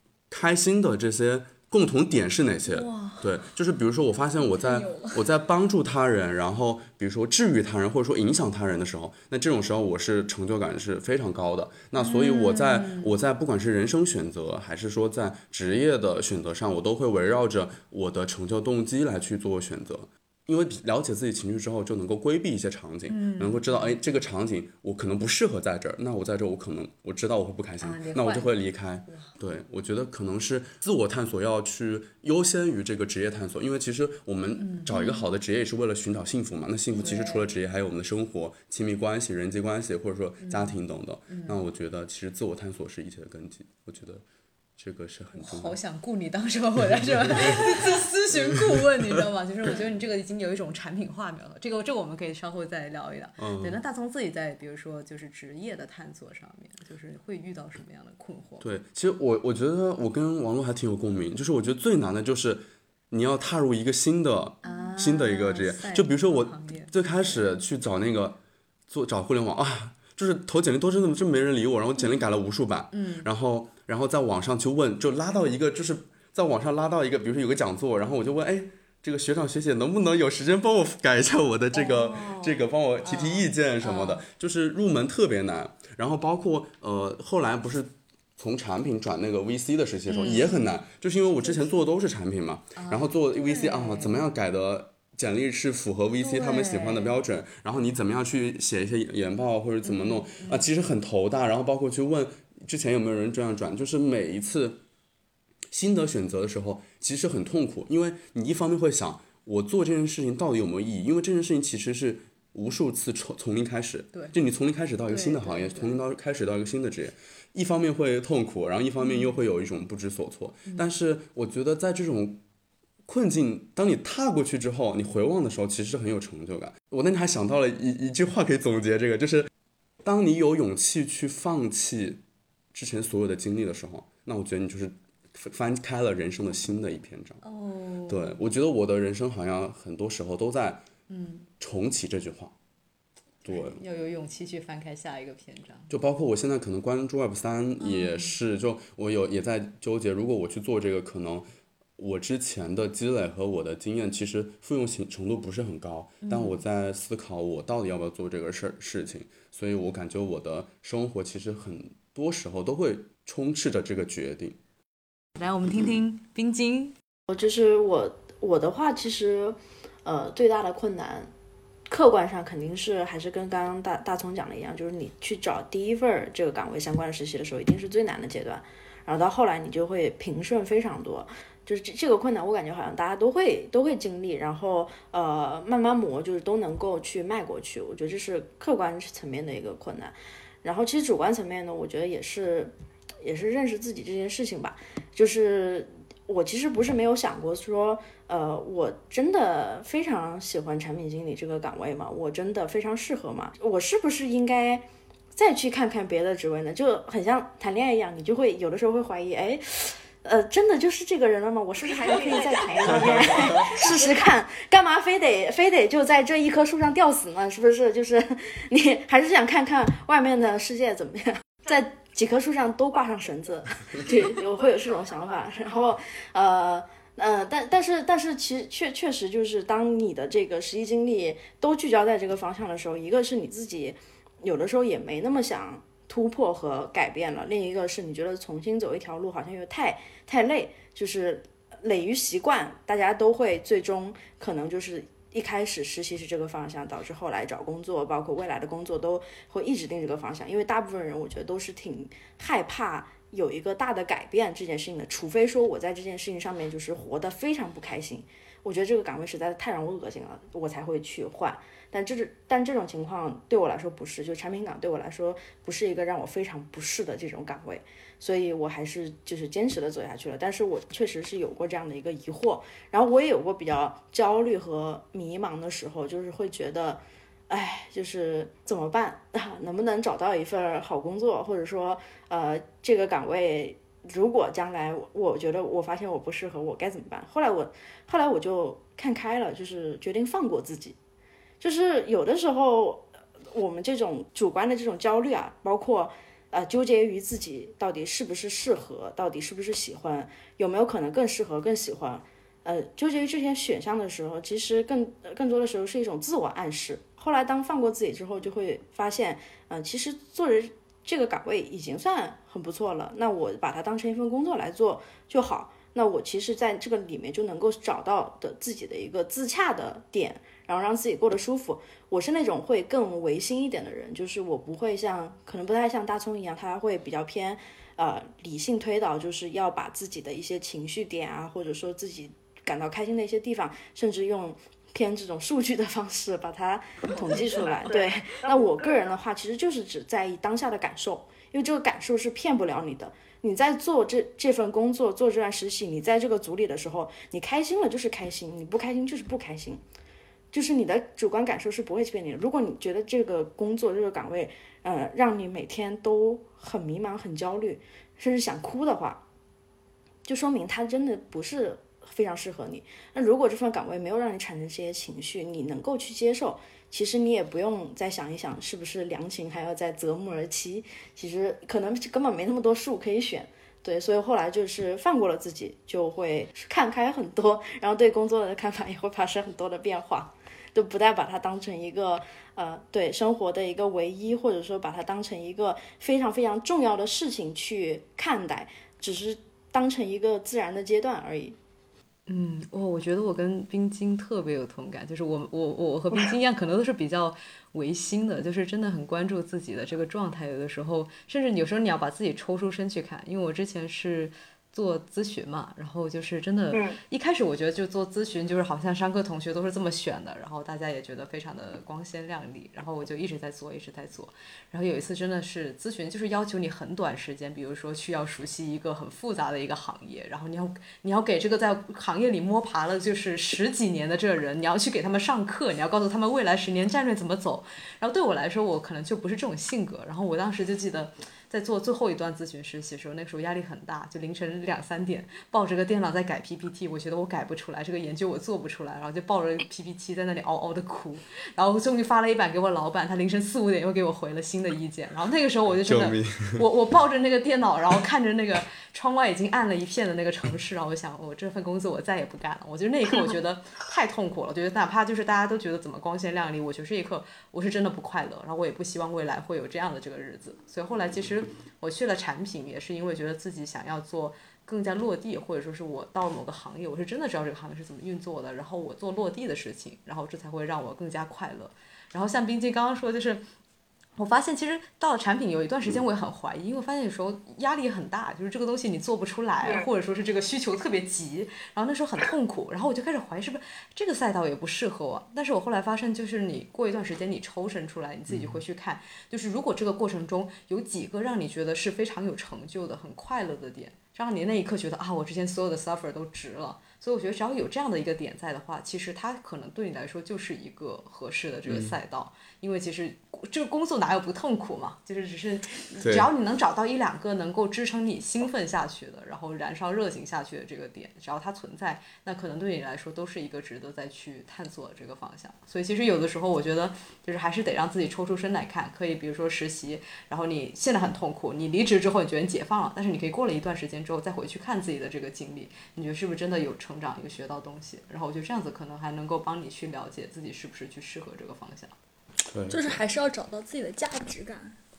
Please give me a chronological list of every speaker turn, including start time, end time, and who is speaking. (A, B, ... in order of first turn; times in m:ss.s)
0:00.3-0:44.2 A
0:02.7-0:03.2 B
0:04.4-0:05.2 B
0:12.0-0:13.1 C
0:23.1-0:24.0 C
0:27.8-0:29.3 C
0:34.6-0:35.3 C
0:36.9-0:37.4 C
0:40.4-0:40.8 C
0:41.3-0:41.6 C
0:44.8-0:45.8 A
0:45.3-0:58.7 C
0:46.9-0:49.1 A
0:53.4-0:53.8 A
0:58.6-1:08.4 A
1:04.6-1:06.9 C
1:08.9-1:44.8 A
1:12.9-1:13.3 C
1:21.7-1:24.2 C
1:30.1-1:30.7 C
1:32.8-1:34.2 C
1:36.2-1:37.2 C
1:39.8-1:40.7 C
1:45.7-2:02.4 A
1:55.1-1:56.0 C
1:59.0-1:59.4 C
2:00.7-2:00.9 C
2:03.1-2:09.5 A
2:10.0-2:12.2 A
2:12.7-2:17.4 A
2:17.4-2:18.4 C
2:18.1-2:20.8 A
2:21.1-2:21.5 C
2:21.6-2:22.5 A
2:23.4-2:23.8 A
2:23.5-2:25.9 C
2:25.9-2:31.5 A
2:27.8-2:28.3 C
2:32.0-2:44.6 A
2:36.2-2:36.6 C
2:45.4-2:47.0 C
2:47.3-2:51.3 D
2:51.9-4:51.0 D
4:51.6-5:49.8 D
5:50.5-5:59.2 D
6:00.3-6:31.6 D
6:32.3-7:53.5 C
7:25.8-7:26.6 A
7:54.2-8:52.0 C
8:08.3-8:08.6 A
8:21.7-8:22.0 A
8:26.0-8:26.3 A
8:52.5-8:52.9 A
8:52.7-8:54.8 B